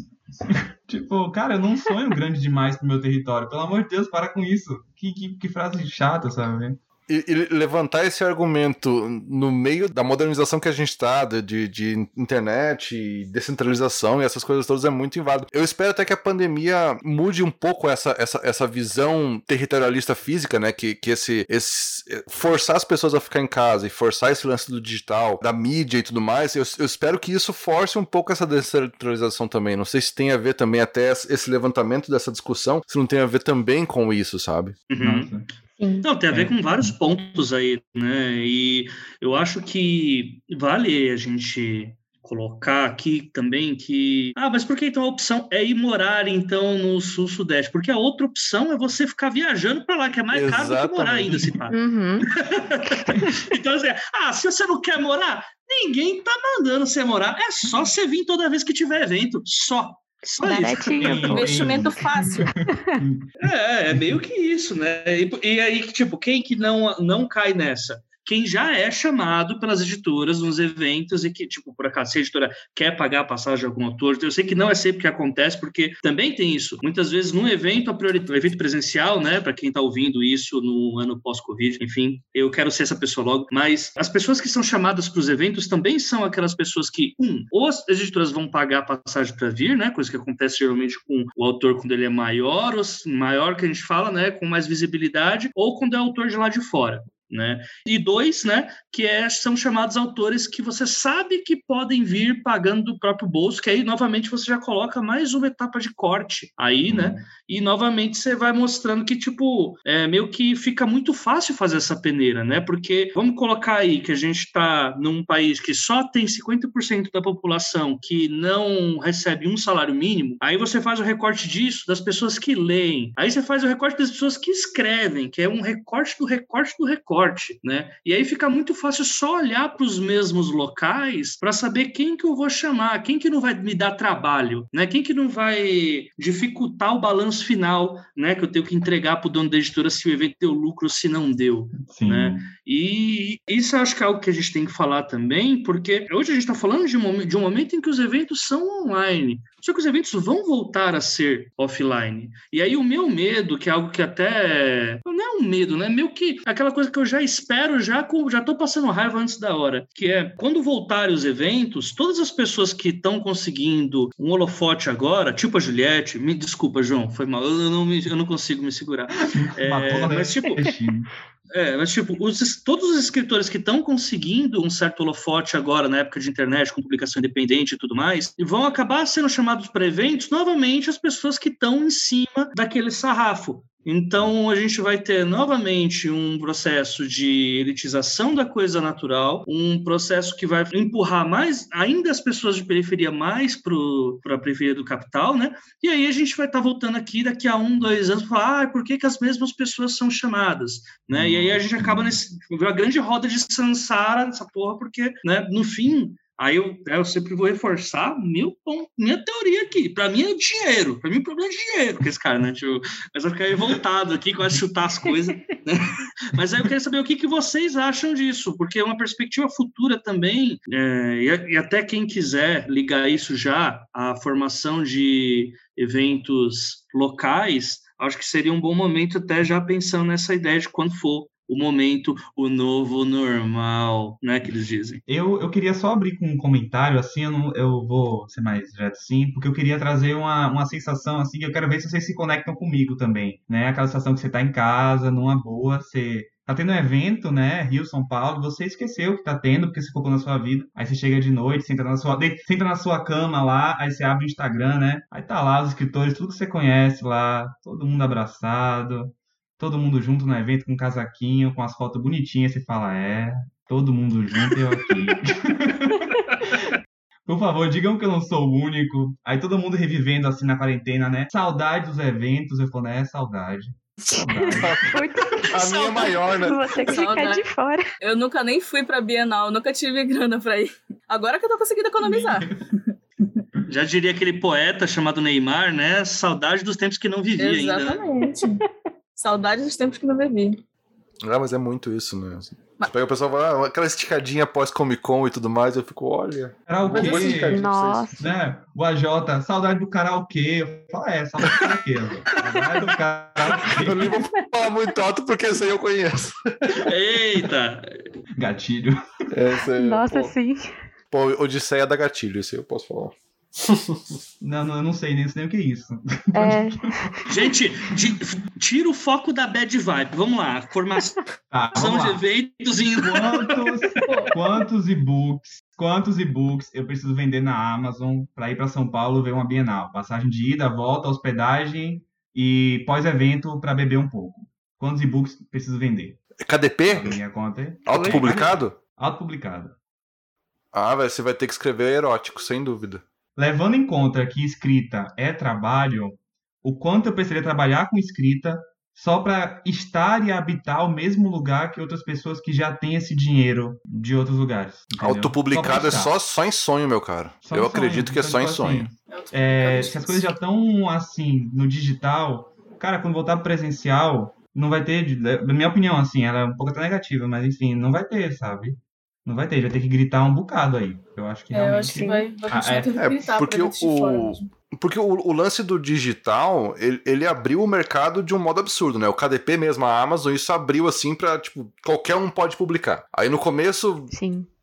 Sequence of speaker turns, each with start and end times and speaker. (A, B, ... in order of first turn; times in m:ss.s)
0:00.5-0:06.8 A
0:07.1-0:34.8 B
0:34.9-0:35.3 C
0:35.0-0:35.5 A
0:35.7-0:36.1 D
0:36.0-0:51.8 C
0:36.3-0:36.9 A
0:50.3-0:51.5 B
0:51.7-0:52.3 D
0:52.5-1:01.4 C
0:52.8-0:53.4 D
1:00.4-1:01.8 D
1:01.0-1:03.3 A
1:01.3-1:02.4 E
1:02.7-1:03.0 D
1:03.4-2:50.7 C
1:03.9-1:04.2 A
1:46.9-1:47.2 A
2:21.8-2:22.5 A
2:49.2-2:51.1 A
2:51.5-3:55.0 C
3:21.1-3:22.2 A
3:55.1-4:26.7 A
4:26.3-4:26.6 C
4:27.3-4:35.0 A
4:34.2-4:37.9 D
4:34.6-4:34.9 B
4:35.5-4:36.6 B
4:36.8-4:37.4 E
4:38.0-4:43.4 E
4:42.0-4:42.6 A
4:43.7-4:48.0 C
4:47.4-4:48.6 E
4:49.2-4:50.6 E
4:51.2-4:58.3 B
4:56.7-5:04.3 A
4:57.0-4:58.2 D
5:03.6-5:06.8 B
5:06.7-5:07.9 C
5:08.4-5:09.0 A
5:09.3-5:10.3 B
5:09.8-5:10.7 D
5:11.1-5:14.2 B
5:14.4-5:17.2 A
5:16.4-5:17.2 D
5:17.3-5:21.2 C
5:21.5-5:22.2 A
5:21.7-5:23.5 C
5:23.0-5:36.2 A
5:24.0-5:24.4 E
5:36.4-5:37.2 B
5:36.9-5:39.8 A
5:37.9-5:38.8 B
5:40.7-5:43.0 B
5:43.4-5:56.1 A
5:55.0-5:58.9 B
5:57.4-6:12.9 A
5:59.1-6:00.3 E
6:11.5-6:14.5 E
6:11.9-6:12.3 D
6:13.0-6:24.1 B
6:24.1-6:24.5 D